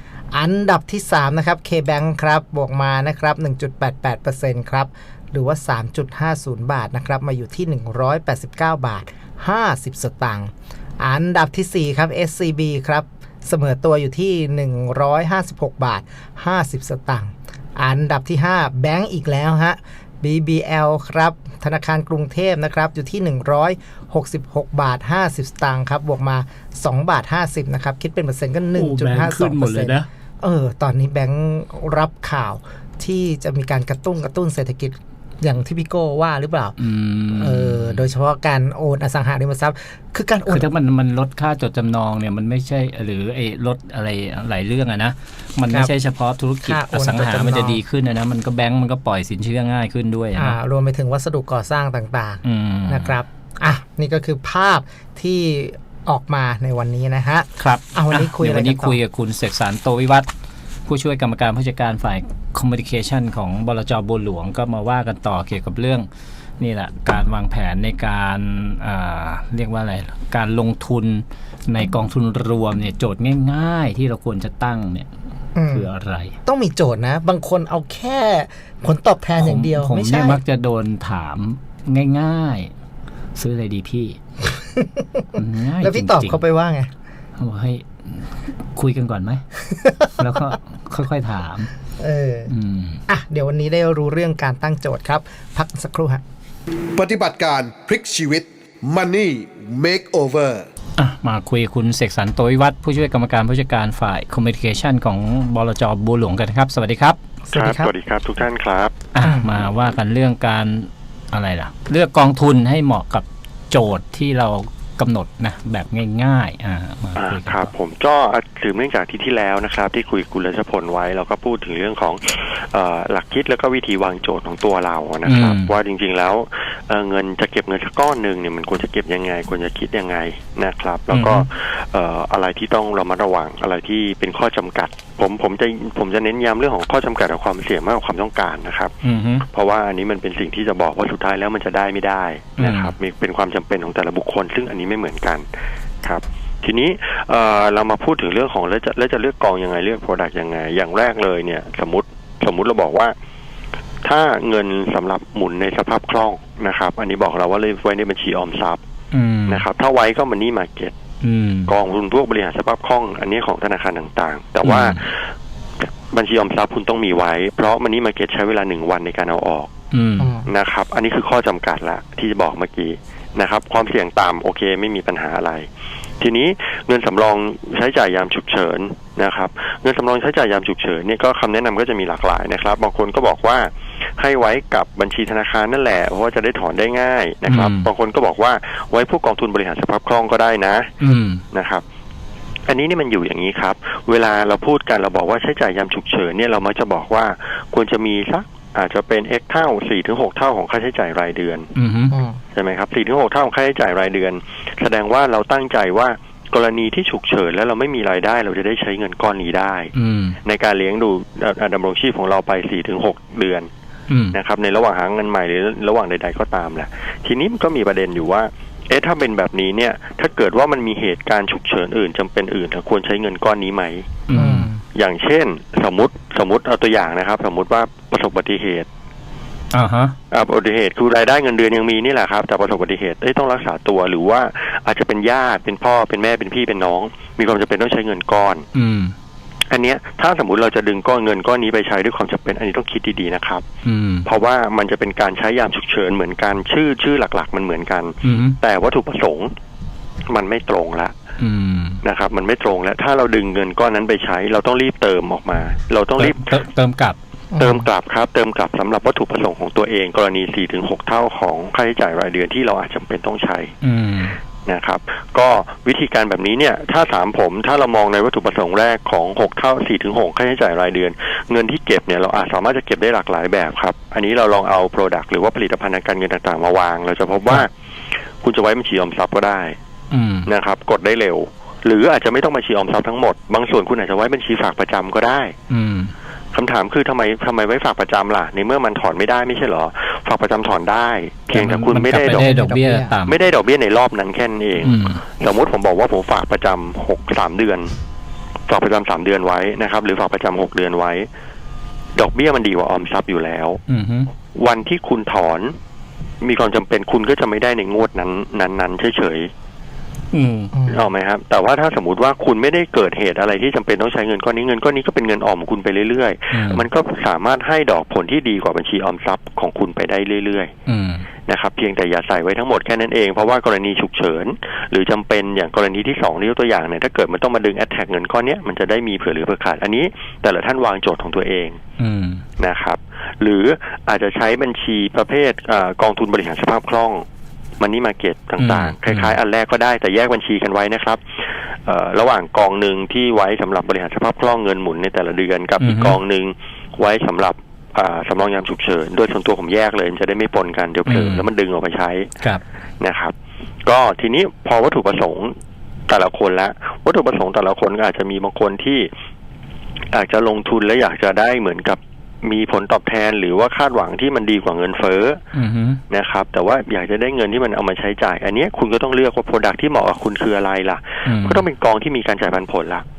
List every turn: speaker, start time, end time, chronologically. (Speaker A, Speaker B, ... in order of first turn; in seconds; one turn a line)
Speaker A: 0.3-36.8
Speaker B: 28.7-30.1
Speaker B: 36.8-38.0
Speaker A: 37.3-40.7
Speaker B: 40.5-50.6
Speaker A: 46.7-47.8
Speaker A: 50.4-59.0
Speaker B: 52.5-53.1
Speaker B: 57.6-60.3
Speaker B: 60.9-66.1
Speaker B: 66.6-75.1
Speaker A: 75.6-75.9
Speaker B: 75.7-76.3
Speaker A: 76.5-80.4
Speaker B: 79.4-82.7
Speaker B: 83.4-84.2
Speaker A: 84.5-85.3
Speaker B: 85.3-86.4
Speaker A: 85.8-86.9
Speaker B: 87.4-89.4
Speaker A: 89.7-90.1
Speaker B: 90.2-91.7
Speaker A: 92.0-92.5
Speaker B: 92.5-93.0
Speaker A: 93.1-96.2
Speaker C: 97.0-100.7
Speaker B: 101.0-107.2
Speaker A: 107.5-107.9
Speaker D: 107.5-108.9
Speaker B: 109.1-117.7
Speaker A: 109.2-109.5
Speaker D: 117.2-138.9
Speaker B: 125.3-125.7
Speaker B: 131.1-131.5
Speaker B: 139.0-139.5
Speaker D: 139.5-145.4
Speaker B: 142.6-142.9
Speaker D: 146.0-153.1
Speaker D: 154.0-158.8
Speaker B: 159.1-159.6
Speaker D: 159.5-160.9
Speaker B: 161.2-161.7
Speaker D: 161.7-165.2
Speaker B: 164.6-165.1
Speaker D: 166.1-169.7
Speaker B: 169.9-170.3
Speaker A: 170.2-170.5
Speaker D: 170.5-175.7
Speaker D: 176.2-190.9
Speaker B: 187.5-187.9
Speaker B: 191.0-191.4
Speaker D: 191.5-191.8
Speaker D: 192.7-201.7
Speaker B: 201.8-202.2
Speaker A: 202.1-202.4
Speaker D: 202.6-209.9
Speaker B: 209.9-210.4
Speaker D: 210.4-213.7
Speaker B: 214.1-214.4
Speaker D: 214.3-224.2
Speaker B: 224.3-224.7
Speaker A: 224.3-224.8
Speaker D: 224.9-228.9
Speaker B: 229.7-230.2
Speaker D: 230.3-238.7
Speaker B: 238.7-239.2
Speaker D: 239.7-243.7
Speaker B: 243.8-244.3
Speaker D: 244.3-249.5
Speaker B: 248.2-248.6
Speaker D: 250.3-251.1
Speaker B: 251.4-252.0
Speaker D: 252.0-256.6
Speaker B: 256.2-257.2
Speaker A: 257.5-257.9
Speaker D: 257.6-263.7
Speaker B: 263.8-264.4
Speaker D: 264.7-277.7
Speaker D: 278.4-279.8
Speaker B: 280.1-280.5
Speaker D: 280.5-285.5
Speaker B: 285.7-286.1
Speaker D: 286.5-292.5
Speaker B: 291.5-293.4
Speaker A: 292.1-293.1
Speaker D: 293.3-297.9
Speaker B: 294.8-295.2
Speaker D: 298.7-301.3
Speaker D: 302.2-303.8
Speaker B: 303.9-304.3
Speaker D: 304.6-305.8
Speaker D: 306.4-309.5
Speaker B: 310.3-310.7
Speaker A: 310.7-311.1
Speaker D: 310.9-320.7
Speaker B: 316.5-316.9
Speaker B: 320.9-321.3
Speaker D: 321.5-331.8
Speaker B: 332.0-332.4
Speaker D: 332.6-337.2
Speaker D: 337.8-341.2
Speaker B: 338.6-339.4
Speaker D: 341.9-352.3
Speaker B: 345.8-346.2
Speaker B: 351.1-351.5
Speaker D: 353.0-353.3
Speaker D: 353.9-355.5
Speaker D: 356.1-359.1
Speaker D: 360.1-365.4
Speaker B: 365.5-366.0
Speaker D: 366.1-373.0
Speaker B: 371.2-371.6